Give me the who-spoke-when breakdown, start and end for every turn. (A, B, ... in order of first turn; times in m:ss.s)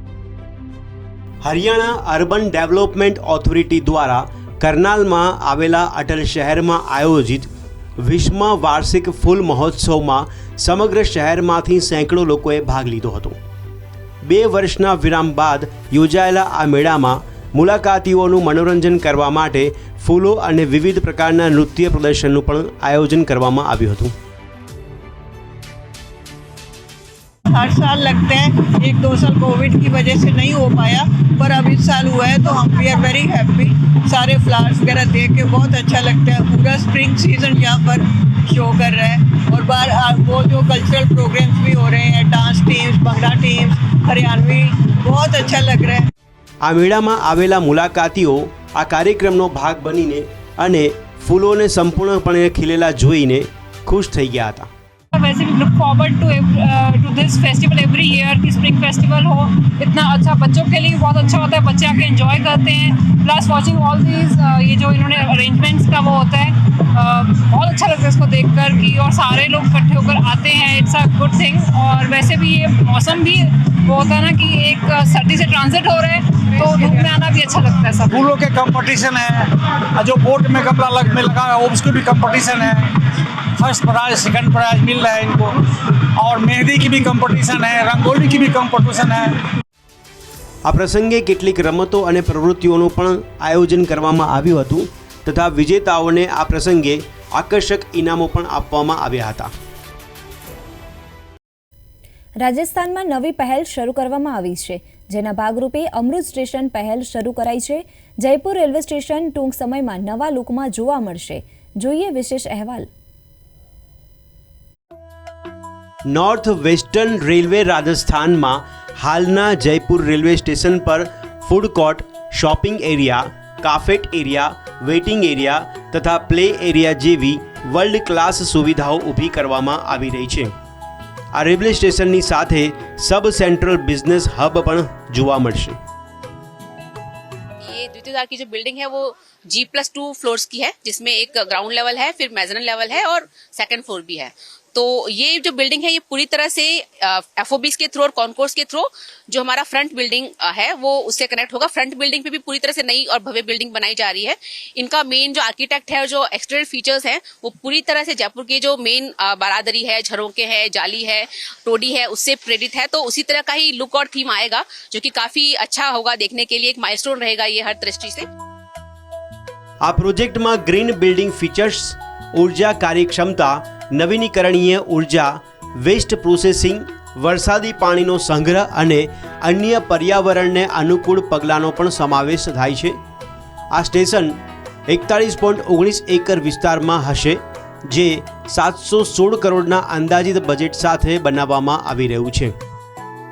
0:01.4-0:13.4 A
0:14.2-0:24.1 A
0:27.5-0:46.0 B
0:46.6-0:54.7 A
0:55.1-1:18.2 C
1:18.1-1:22.9 D
1:23.6-1:25.5 D
1:26.2-1:29.4 D
1:30.6-1:39.5 A
1:42.4-1:52.9 E
1:56.1-2:10.5 A
2:11.3-2:15.8 A
2:17.6-2:48.3 F
2:49.8-3:03.0 A
3:03.7-3:12.6 A